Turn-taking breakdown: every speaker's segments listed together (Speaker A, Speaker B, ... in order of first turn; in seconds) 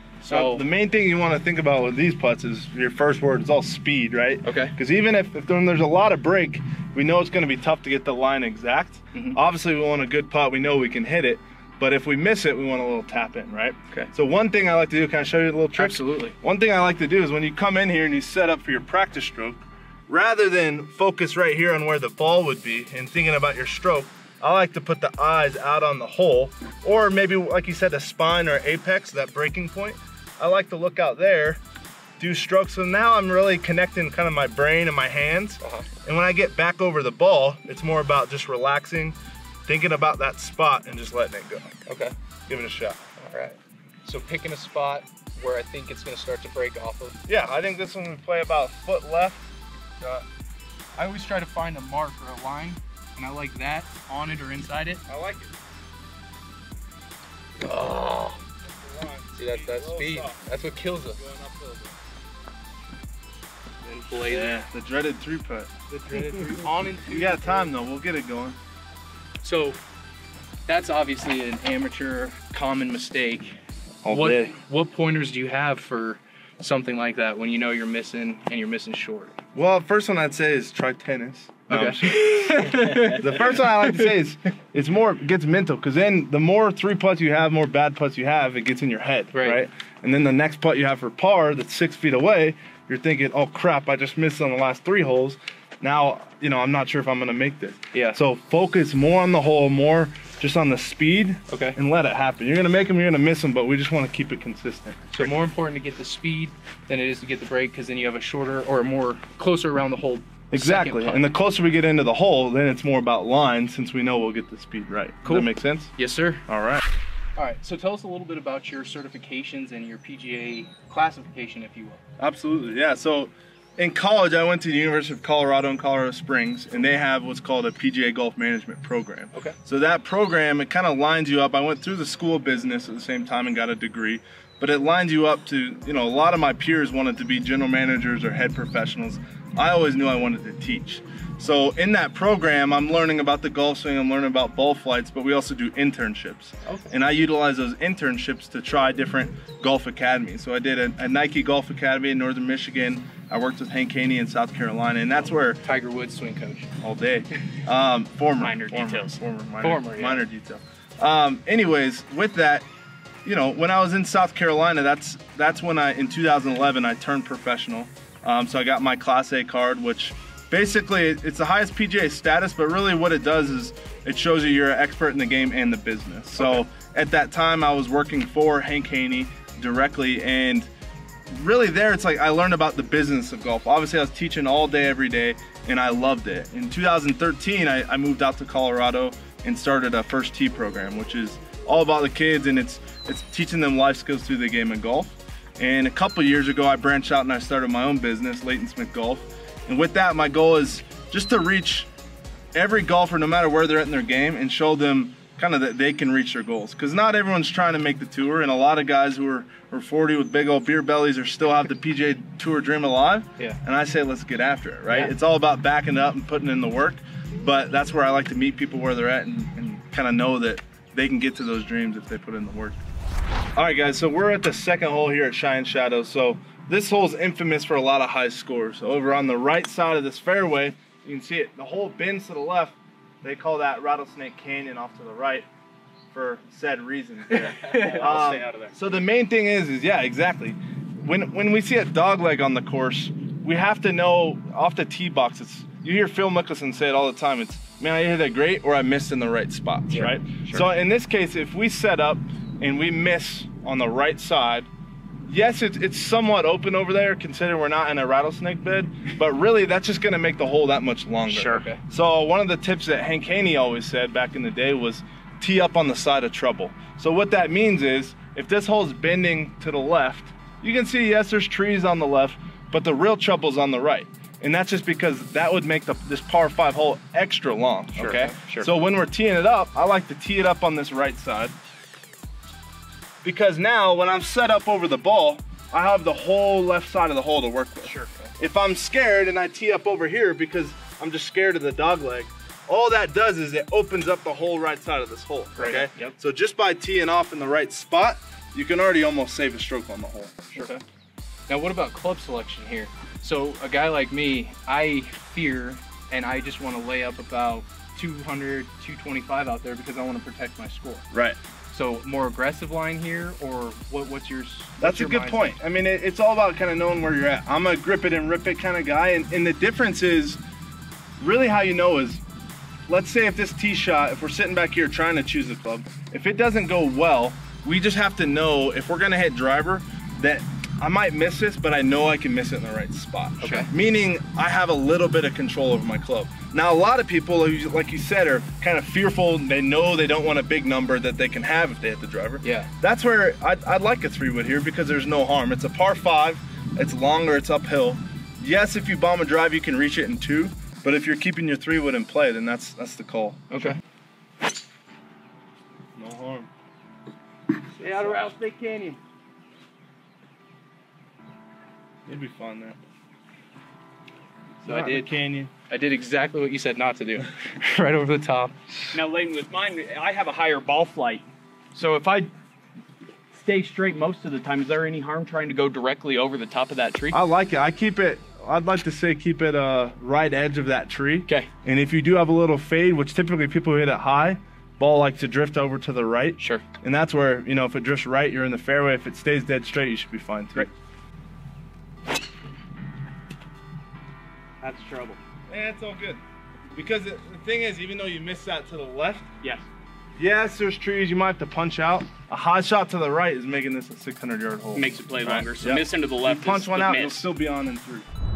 Speaker A: 0.2-0.7, 4.4-4.7, 15.8-16.4, 35.6-35.9, 41.9-42.1, 43.2-47.2, 51.0-55.0, 57.6-58.4, 59.4-61.2, 63.8-64.7, 65.9-67.7, 69.4-69.8, 70.7-73.6, 74.1-79.4, 81.7-83.3, 89.3-89.6, 97.9-98.2, 101.5-101.8, 105.2-111.3, 115.2-116.5, 117.4-122.0, 155.6-156.7, 159.6-160.2, 237.4-238.0, 261.3-261.8, 278.1-278.3, 300.6-300.8, 301.5-311.1, 311.7-315.6, 333.4-333.7, 342.4-342.7, 353.5-353.8, 357.8-359.0, 364.6-365.1, 365.7-368.6
Speaker B: 0.3-31.6, 32.2-41.8, 42.5-43.0, 47.3-49.5, 55.1-55.6, 58.6-60.5, 61.2-62.0, 64.1-65.7, 67.1-68.6, 74.0-74.5, 79.5-105.3, 110.5-115.9, 116.5-116.8, 122.2-155.6, 156.8-162.7, 163.2-180.7, 181.3-201.9, 202.5-222.8, 223.6-235.5, 236.1-254.7, 255.2-281.6, 283.2-300.4, 311.1-311.4, 314.8-320.4, 321.2-322.2, 322.9-353.7, 355.9-356.5, 357.9-358.3, 362.1-362.8, 364.6-365.5, 377.1-390.7, 395.5-396.2, 396.8-399.3, 400.2-408.1
Speaker C: 158.4-159.2, 237.3-238.8, 250.0-250.6, 278.0-278.7, 287.8-288.1, 295.6-296.1, 368.9-372.3, 373.3-377.2, 394.6-395.2, 399.4-399.7, 404.8-407.2